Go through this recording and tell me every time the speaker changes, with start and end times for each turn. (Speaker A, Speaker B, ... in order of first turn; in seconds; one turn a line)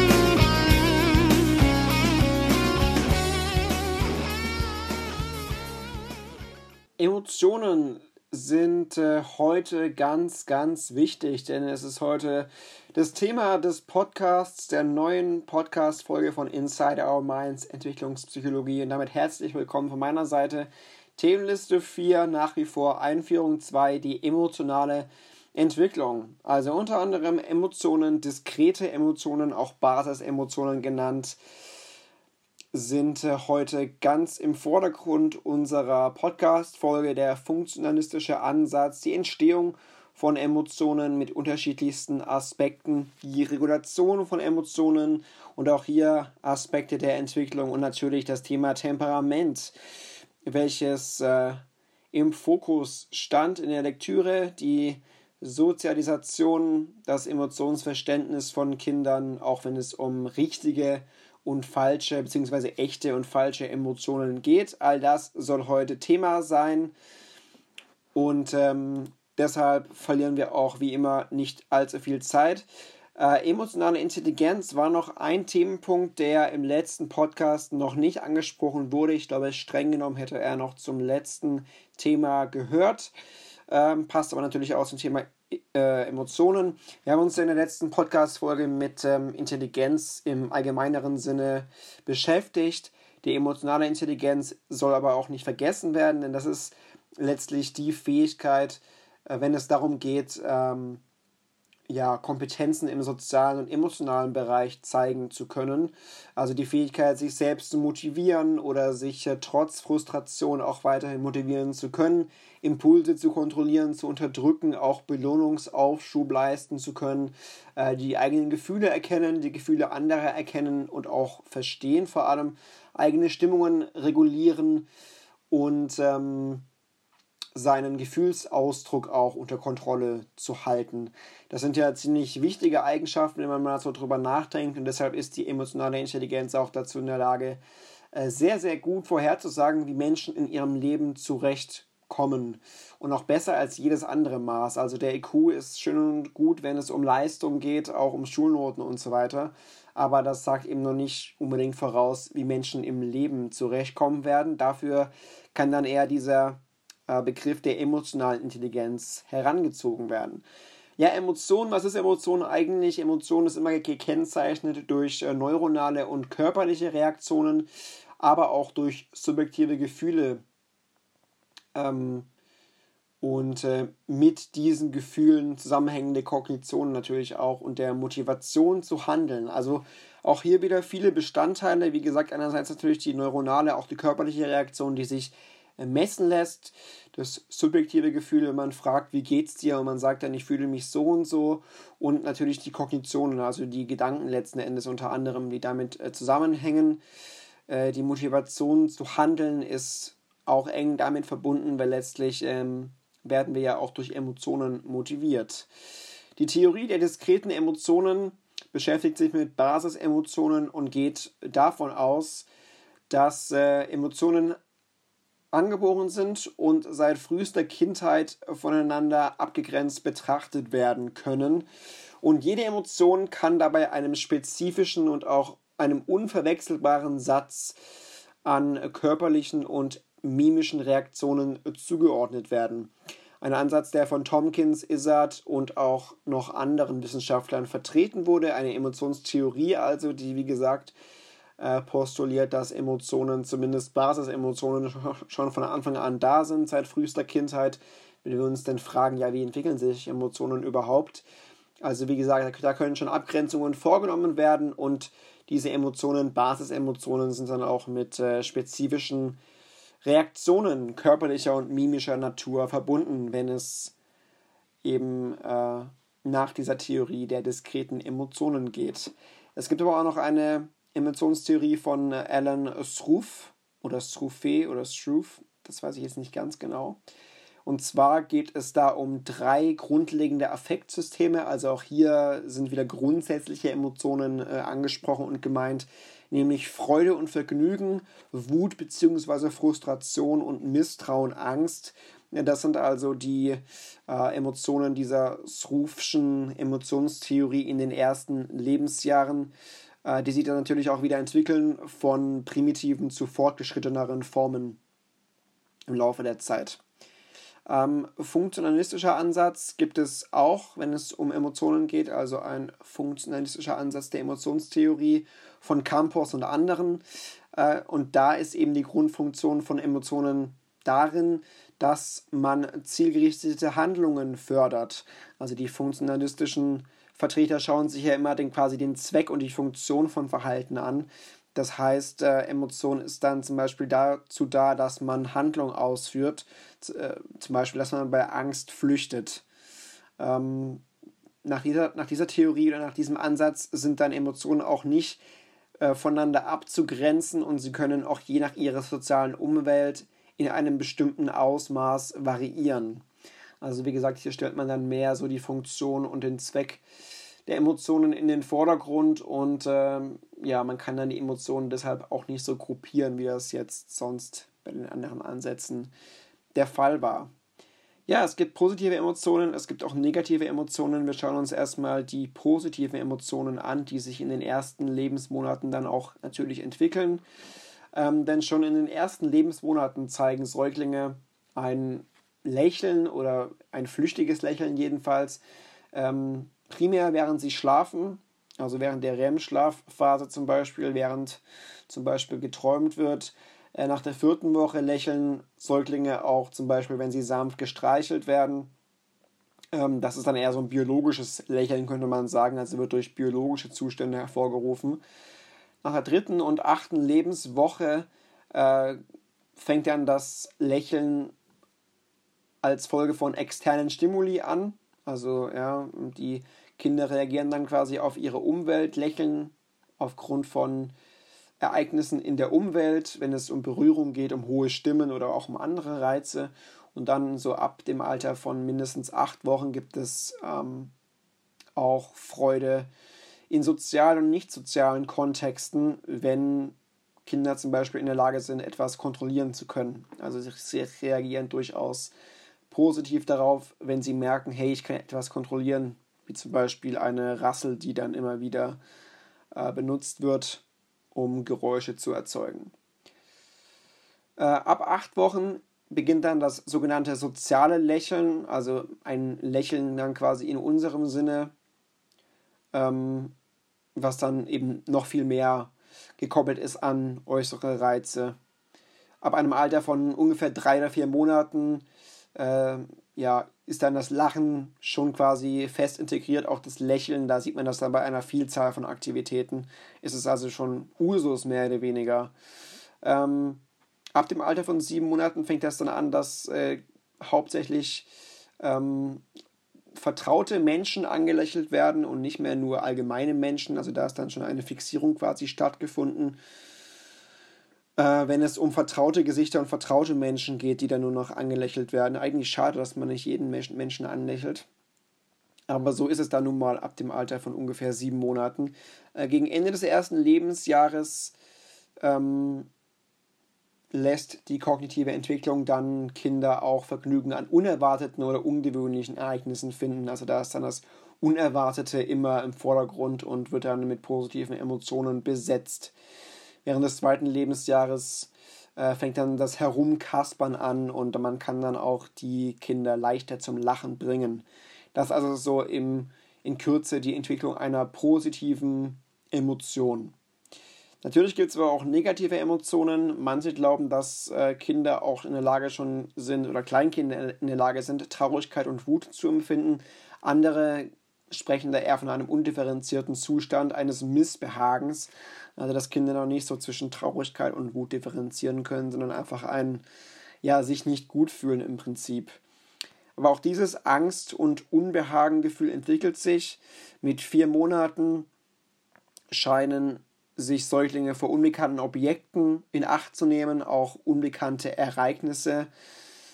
Speaker A: 7.0-31.4
Speaker A: 32.7-49.7
Speaker A: 50.5-51.6
Speaker A: 52.1-66.9
Speaker A: 68.1-83.1
Speaker A: 83.7-101.0
Speaker A: 101.9-124.9
Speaker A: 125.5-126.7
Speaker A: 127.5-137.6
Speaker A: 138.1-160.4
Speaker A: 161.0-167.7
Speaker A: 168.2-170.4
Speaker A: 171.7-172.3
Speaker A: 173.2-197.0
Speaker A: 197.7-205.7
Speaker A: 206.4-212.5
Speaker A: 213.1-214.6
Speaker A: 215.5-221.7
Speaker A: 222.2-227.8
Speaker A: 228.4-241.0
Speaker A: 241.6-251.3
Speaker A: 251.8-259.4
Speaker A: 260.0-263.9
Speaker A: 264.8-277.0
Speaker A: 277.6-299.5
Speaker A: 300.1-304.8
Speaker A: 305.9-306.8
Speaker A: 307.7-317.0
Speaker A: 317.5-339.4
Speaker A: 340.2-340.8
Speaker A: 341.4-345.2
Speaker A: 345.8-353.1
Speaker A: 353.6-356.8
Speaker A: 357.5-365.9
Speaker A: 366.6-367.3
Speaker A: 368.1-377.2
Speaker A: 377.9-398.7
Speaker A: 399.7-405.0
Speaker A: 405.8-409.0
Speaker A: 409.6-411.4
Speaker A: 412.6-420.9
Speaker A: 421.6-430.9
Speaker A: 431.8-432.9
Speaker A: 433.5-442.1
Speaker A: 442.7-448.8
Speaker A: 449.6-452.7
Speaker A: 454.4-461.5
Speaker A: 462.7-463.4
Speaker A: 464.0-468.4
Speaker A: 469.2-471.9
Speaker A: 472.4-482.3
Speaker A: 483.0-483.6
Speaker A: 484.1-488.1
Speaker A: 488.6-489.2
Speaker A: 489.9-496.4
Speaker A: 498.0-504.7
Speaker A: 505.7-511.4
Speaker A: 512.0-512.7
Speaker A: 513.9-525.9
Speaker A: 526.6-540.1
Speaker A: 541.0-559.8
Speaker A: 560.4-562.4
Speaker A: 563.2-568.3
Speaker A: 569.3-575.7